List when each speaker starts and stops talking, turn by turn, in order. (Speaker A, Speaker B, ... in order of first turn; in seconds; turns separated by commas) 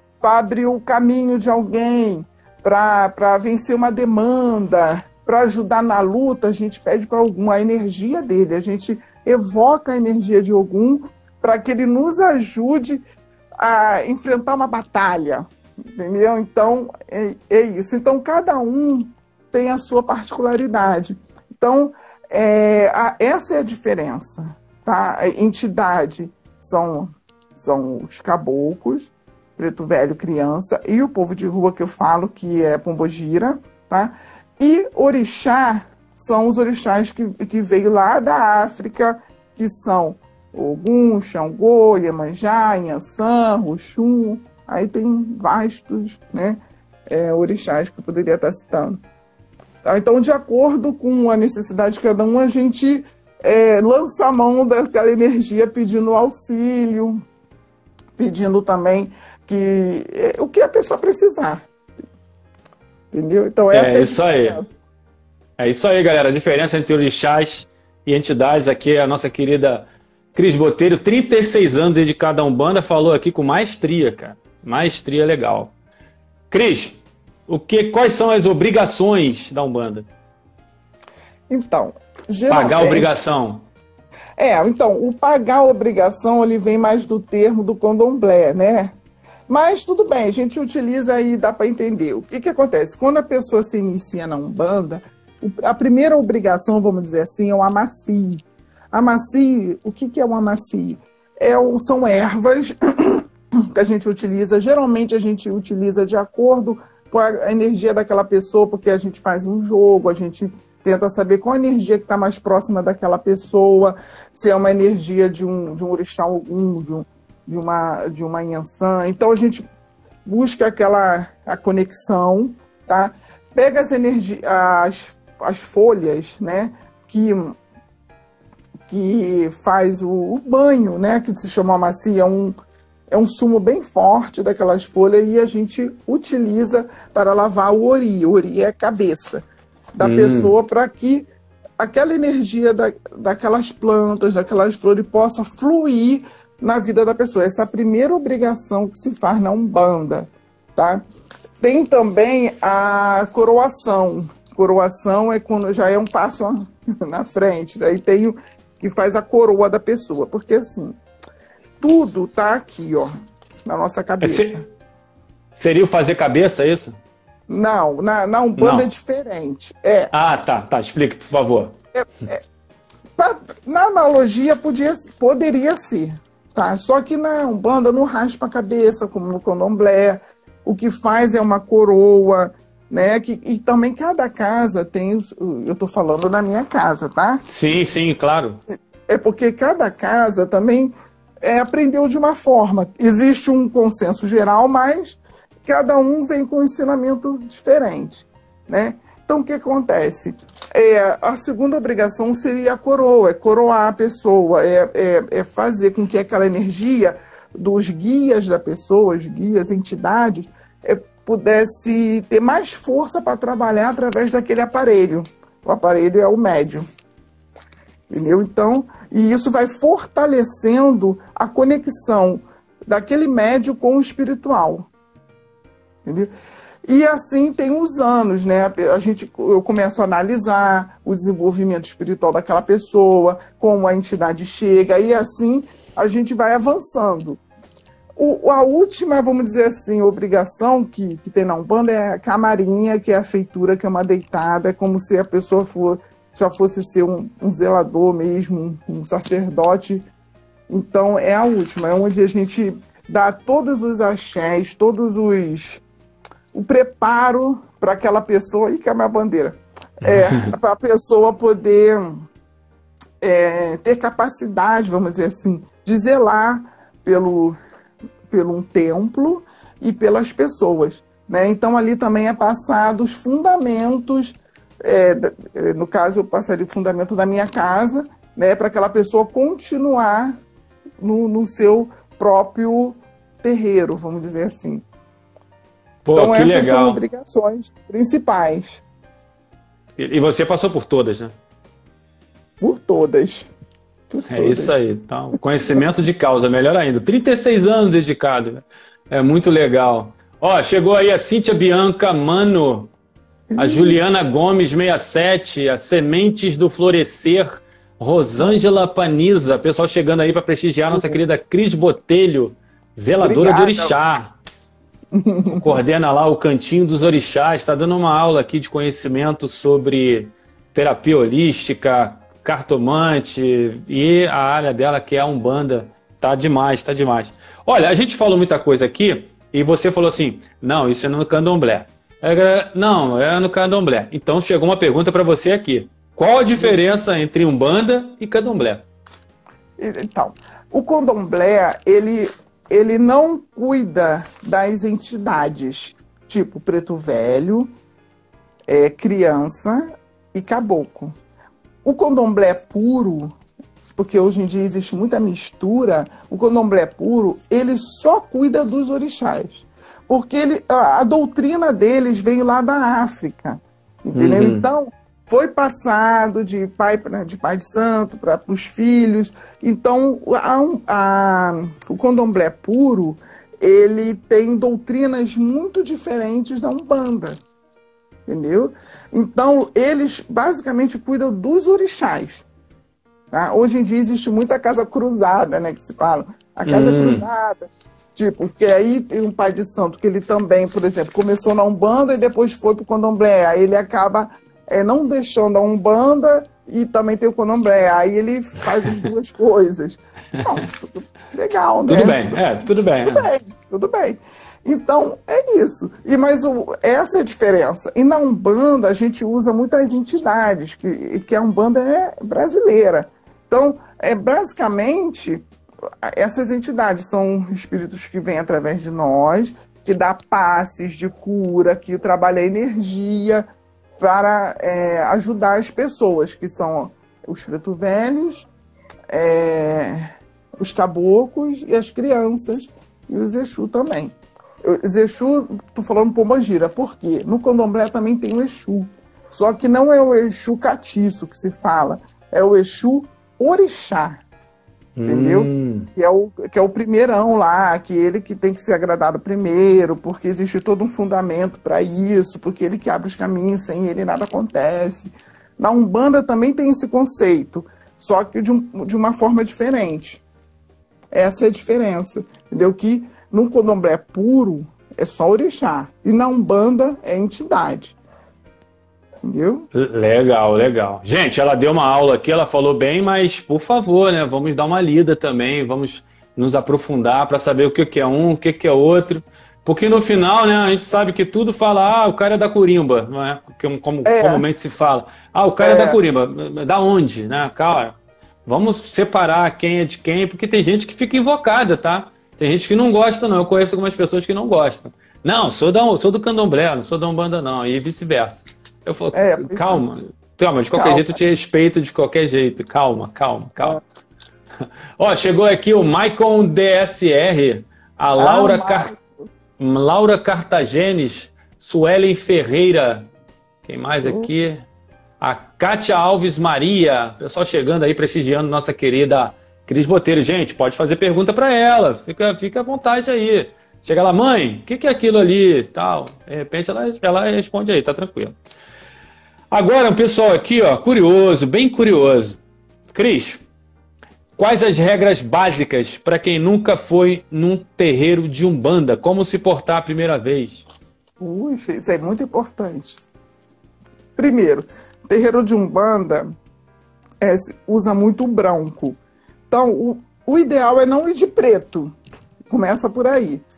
Speaker A: 0.2-13.0, Speaker A: 13.6-49.0, Speaker A: 49.8-57.2, Speaker A: 58.2-61.7, Speaker A: 63.1-64.7, Speaker B: 63.7-64.6, Speaker B: 65.6-75.7, Speaker B: 76.5-80.1, Speaker A: 81.5-83.1, Speaker B: 82.5-83.7, Speaker A: 84.4-88.9, Speaker A: 89.5-119.6, Speaker A: 120.2-127.6, Speaker A: 128.9-132.6, Speaker A: 133.1-139.4, Speaker A: 139.9-141.2, Speaker B: 140.0-140.5, Speaker A: 141.8-151.0, Speaker A: 151.6-161.0, Speaker A: 161.8-163.1, Speaker A: 163.6-164.7, Speaker B: 164.2-164.6, Speaker B: 165.5-167.0, Speaker A: 167.5-170.1, Speaker B: 168.6-168.9, Speaker B: 170.1-171.7, Speaker A: 172.0-172.4, Speaker A: 173.2-187.4, Speaker B: 187.5-188.6, Speaker A: 189.1-216.8, Speaker A: 218.1-224.9, Speaker A: 226.0-226.3, Speaker A: 226.8-237.4, Speaker A: 238.2-250.1, Speaker A: 250.7-255.8, Speaker A: 256.5-262.2, Speaker B: 260.0-260.5, Speaker A: 263.2-267.6, Speaker A: 268.3-280.4, Speaker A: 281.0-284.8, Speaker B: 286.0-287.0, Speaker A: 286.1-288.8, Speaker B: 290.0-291.3, Speaker A: 292.6-293.5, Speaker A: 294.1-294.8, Speaker B: 294.3-302.9, Speaker A: 303.5-304.0, Speaker B: 303.6-314.4, Speaker A: 310.9-311.2, Speaker A: 313.2-313.9, Speaker A: 315.1-315.8, Speaker B: 315.6-338.9, Speaker A: 339.8-347.7, Speaker A: 348.7-351.2, Speaker A: 351.8-353.4, Speaker A: 353.9-377.4, Speaker B: 364.1-364.6, Speaker A: 378.3-382.4, Speaker A: 383.3-402.4, Speaker B: 386.6-387.2, Speaker B: 401.9-403.3, Speaker A: 403.0-415.4, Speaker A: 416.0-423.4, Speaker A: 424.0-428.5, Speaker A: 429.1-444.2, Speaker B: 445.0-445.9, Speaker A: 445.0-460.2, Speaker A: 461.1-467.9, Speaker A: 469.2-469.7, Speaker B: 469.7-503.8, Speaker A: 484.0-484.4, Speaker A: 485.6-486.0, Speaker A: 499.1-499.8, Speaker A: 500.8-501.2, Speaker B: 505.0-508.9, Speaker A: 508.2-509.1, Speaker B: 509.6-513.1, Speaker B: 513.6-514.6, Speaker A: 514.0-514.3, Speaker B: 515.2-528.4, Speaker B: 529.5-532.4, Speaker B: 532.9-533.4, Speaker B: 534.4-540.6, Speaker A: 541.2-543.0, Speaker A: 544.1-546.3, Speaker A: 547.2-549.0, Speaker A: 549.5-551.9, Speaker A: 552.5-553.4